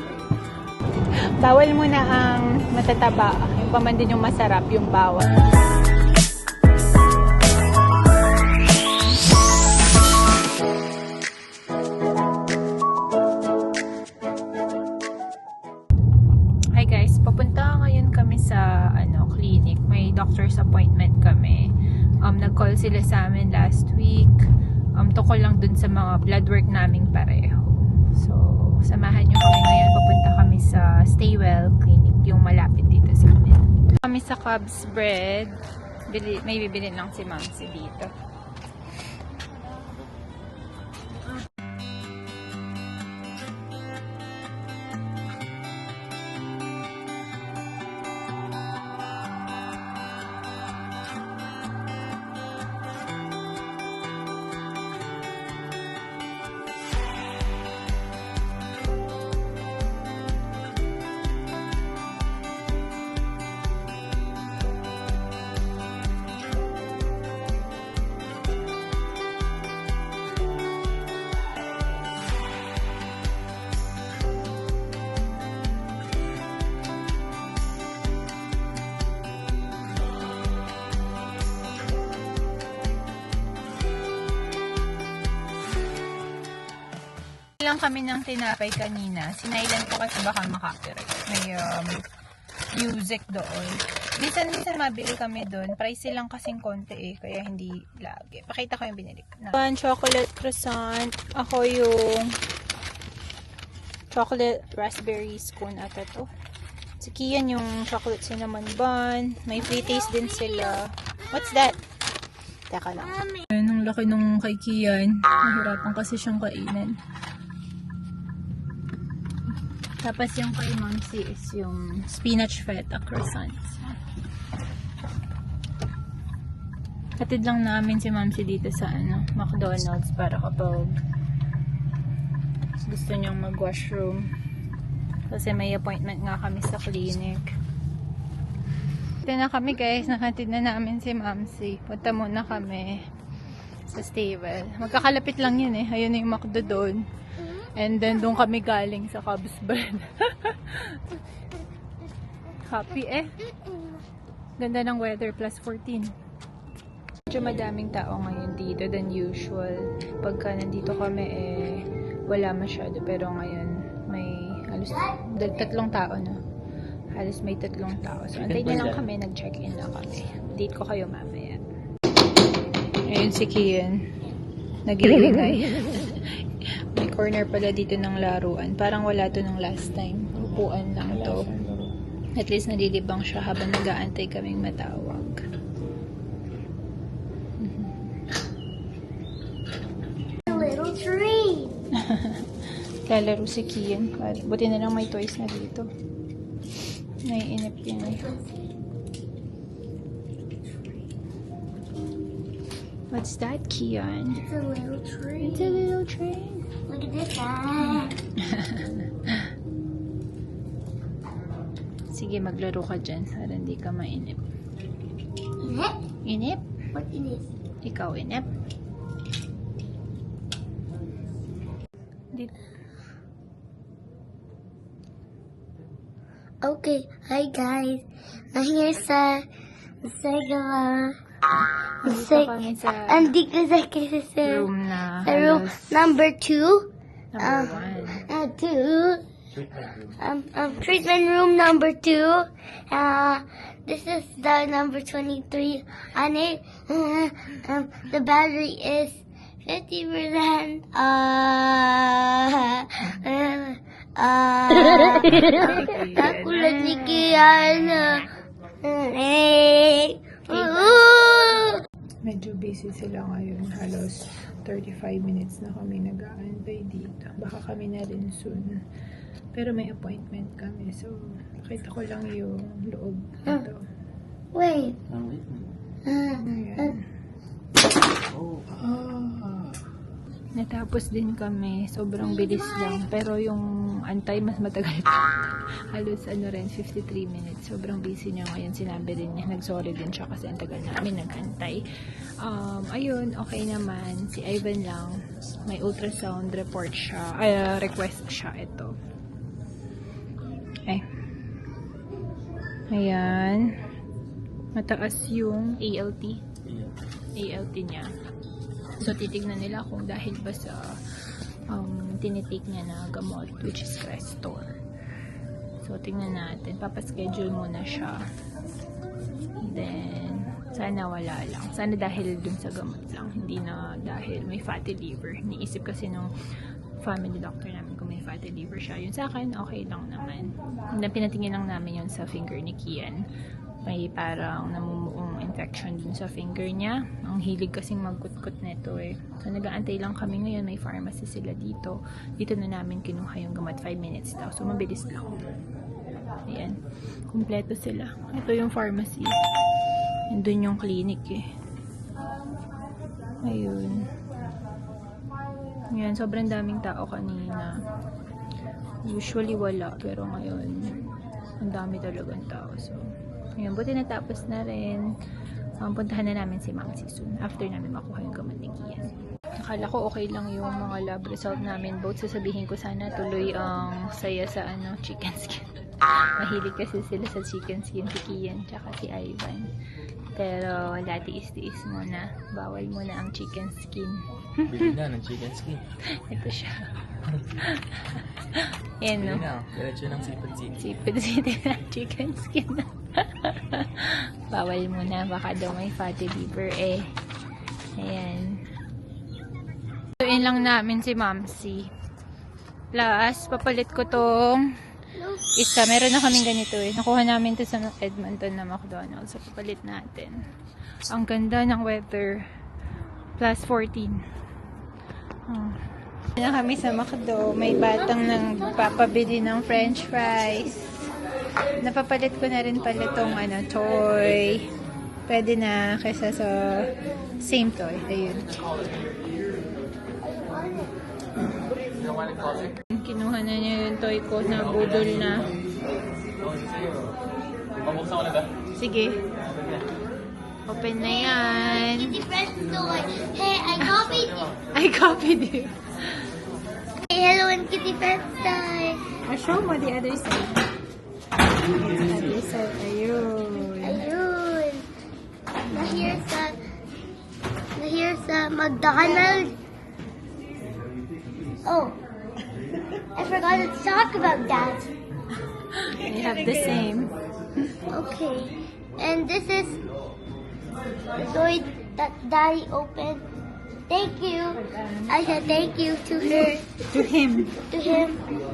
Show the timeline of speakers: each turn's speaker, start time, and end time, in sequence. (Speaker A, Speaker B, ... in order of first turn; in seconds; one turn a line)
Speaker A: 1.4-5.4
Speaker A: 16.7-38.1
Speaker A: 87.6-92.1
Speaker A: 92.7-102.4
Speaker A: 104.1-106.3
Speaker A: 107.0-111.8
Speaker A: 112.7-117.0
Speaker A: 120.0-124.0
Speaker A: 127.2-131.0
Speaker A: 132.8-134.3
Speaker A: 135.3-137.5
Speaker A: 139.2-143.1
Speaker A: 143.9-151.1
Speaker A: 152.6-153.4
Speaker A: 154.6-156.2
Speaker A: 157.3-166.4
Speaker A: 167.1-171.6
Speaker B: 168.3-169.0
Speaker A: 173.0-174.1
Speaker A: 174.9-181.5
Speaker B: 180.3-181.9
Speaker A: 182.4-185.4
Speaker A: 187.6-188.0
Speaker C: 190.5-191.8
Speaker A: 191.9-195.9
Speaker A: 197.2-198.3
Speaker C: 198.2-198.7
Speaker A: 203.1-204.4
Speaker C: 204.4-205.9
Speaker A: 205.4-206.7
Speaker C: 206.9-208.2
Speaker A: 207.9-209.4
Speaker A: 212.1-214.5
Speaker C: 215.6-216.0
Speaker A: 216.2-216.7
Speaker C: 216.9-217.5
Speaker A: 217.8-218.5
Speaker C: 226.6-229.5
Speaker C: 230.0-231.2
Speaker A: 232.0-233.3
Speaker C: 232.1-234.7
Speaker A: 234.4-236.1
Speaker C: 235.2-237.8
Speaker A: 237.3-238.3
Speaker C: 238.3-239.2
Speaker B: 239.5-240.2
Speaker C: 240.2-258.2
Speaker A: 255.2-258.2
Speaker C: 258.8-261.8
Speaker A: 260.5-260.9
Speaker A: 262.2-268.8
Speaker A: 269.5-273.9
Speaker C: 274.5-275.0
Speaker B: 275.1-275.7
Speaker C: 276.1-277.0
Speaker A: 276.4-277.1
Speaker B: 278.3-279.8
Speaker A: 280.6-291.8
Speaker C: 282.2-283.0
Speaker A: 292.4-299.0
Speaker A: 302.9-303.8
Speaker A: 304.8-306.5
Speaker B: 306.6-306.9
Speaker A: 307.4-308.1
Speaker A: 309.0-311.0
Speaker A: 311.7-314.8
Speaker A: 315.8-318.3
Speaker A: 319.6-326.3
Speaker A: 327.0-333.3
Speaker A: 333.8-345.4
Speaker A: 346.4-349.4
Speaker A: 350.3-351.5
Speaker A: 353.4-354.1
Speaker A: 355.9-357.8
Speaker A: 359.1-363.1
Speaker A: 363.6-365.1
Speaker A: 365.8-379.7
Speaker A: 380.4-384.9
Speaker B: 384.7-385.8
Speaker A: 386.1-387.0
Speaker A: 387.5-389.5
Speaker B: 389.1-390.8
Speaker A: 390.8-397.1
Speaker A: 397.9-398.6
Speaker A: 400.2-401.9
Speaker A: 402.9-404.8
Speaker A: 405.4-410.5
Speaker A: 411.1-412.5
Speaker A: 413.4-414.2
Speaker A: 415.5-421.1
Speaker A: 421.8-424.7
Speaker A: 425.3-428.6
Speaker C: 430.3-430.9
Speaker A: 432.8-435.5
Speaker B: 436.4-437.1
Speaker B: 437.8-438.5
Speaker A: 438.7-439.2
Speaker A: 440.7-442.2
Speaker C: 441.0-444.5
Speaker A: 444.7-445.8
Speaker C: 447.1-449.1
Speaker A: 449.2-450.6
Speaker A: 451.7-454.1
Speaker C: 453.8-454.9
Speaker C: 455.7-456.6
Speaker C: 457.8-459.6
Speaker C: 461.6-462.0
Speaker C: 463.1-464.9
Speaker A: 465.7-467.2
Speaker C: 467.9-469.8
Speaker C: 471.2-473.2
Speaker C: 473.9-476.8
Speaker A: 474.6-475.5
Speaker A: 476.1-478.1
Speaker C: 477.6-478.2